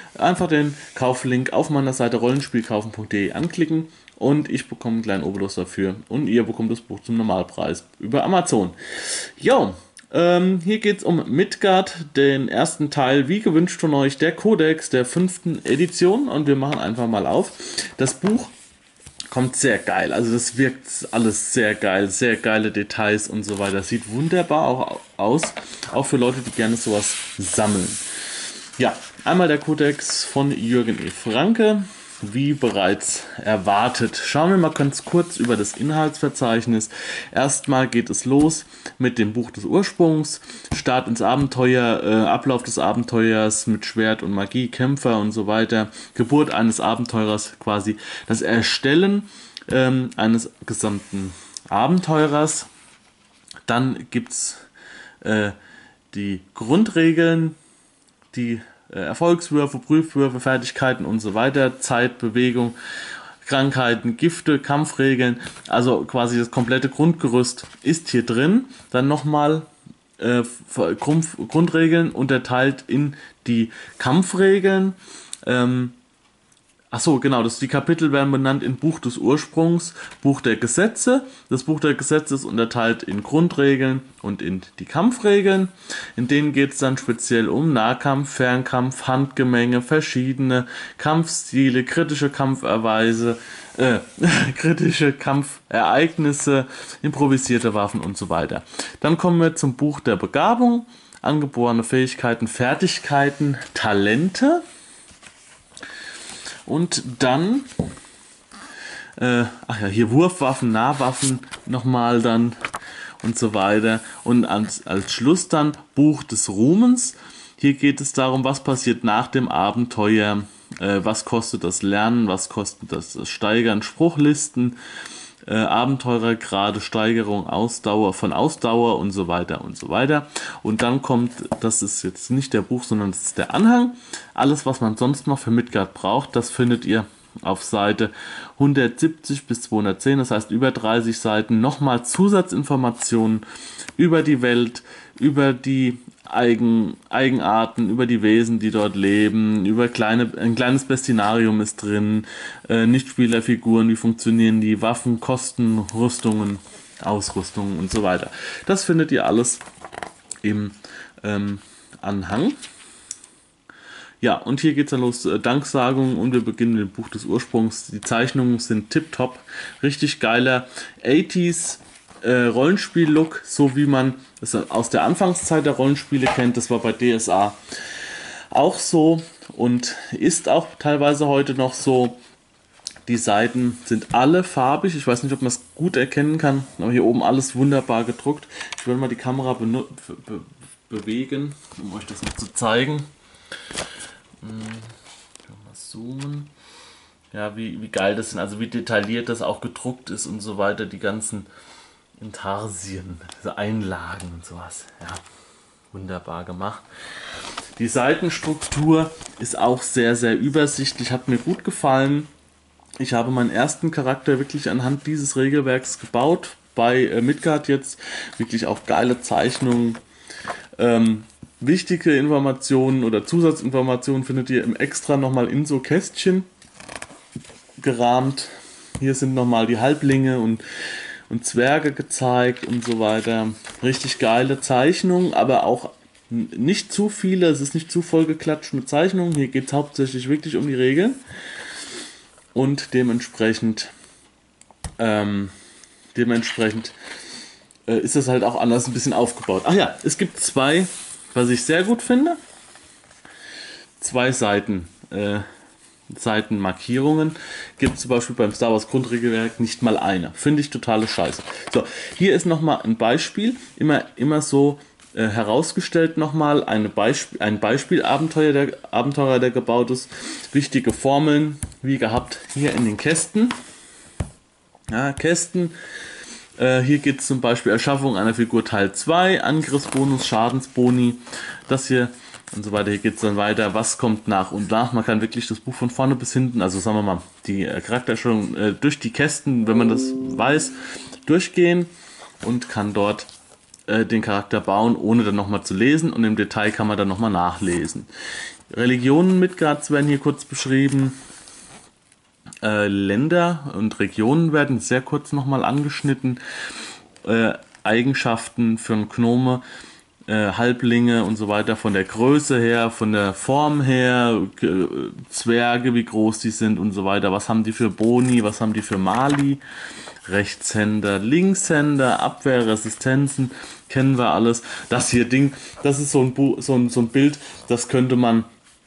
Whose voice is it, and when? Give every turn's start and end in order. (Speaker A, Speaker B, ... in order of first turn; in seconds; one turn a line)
Speaker A: 0.1-18.5
Speaker A: 19.3-52.7
Speaker A: 53.7-54.7
Speaker A: 55.2-55.5
Speaker A: 56.1-57.6
Speaker A: 58.3-62.8
Speaker A: 63.4-76.0
Speaker A: 76.9-104.6
Speaker A: 106.7-107.7
Speaker A: 109.2-112.5
Speaker A: 113.2-124.8
Speaker A: 125.5-143.4
Speaker A: 144.0-159.6
Speaker A: 160.4-162.6
Speaker A: 164.2-182.2
Speaker A: 183.1-193.1
Speaker A: 194.4-194.9
Speaker A: 195.4-196.5
Speaker A: 197.3-201.5
Speaker A: 202.2-205.2
Speaker A: 205.9-206.8
Speaker A: 207.8-212.3
Speaker A: 213.0-220.0
Speaker A: 220.8-226.5
Speaker A: 227.8-230.6
Speaker A: 231.3-241.2
Speaker A: 242.5-243.9
Speaker A: 245.0-245.5
Speaker A: 246.1-246.9
Speaker A: 247.9-252.4
Speaker A: 254.0-255.4
Speaker A: 256.1-273.6
Speaker A: 274.9-275.7
Speaker A: 276.6-291.9
Speaker A: 292.4-293.3
Speaker A: 293.9-298.1
Speaker A: 298.7-301.2
Speaker A: 302.6-306.4
Speaker A: 307.2-309.6
Speaker A: 310.3-319.6
Speaker A: 320.2-328.5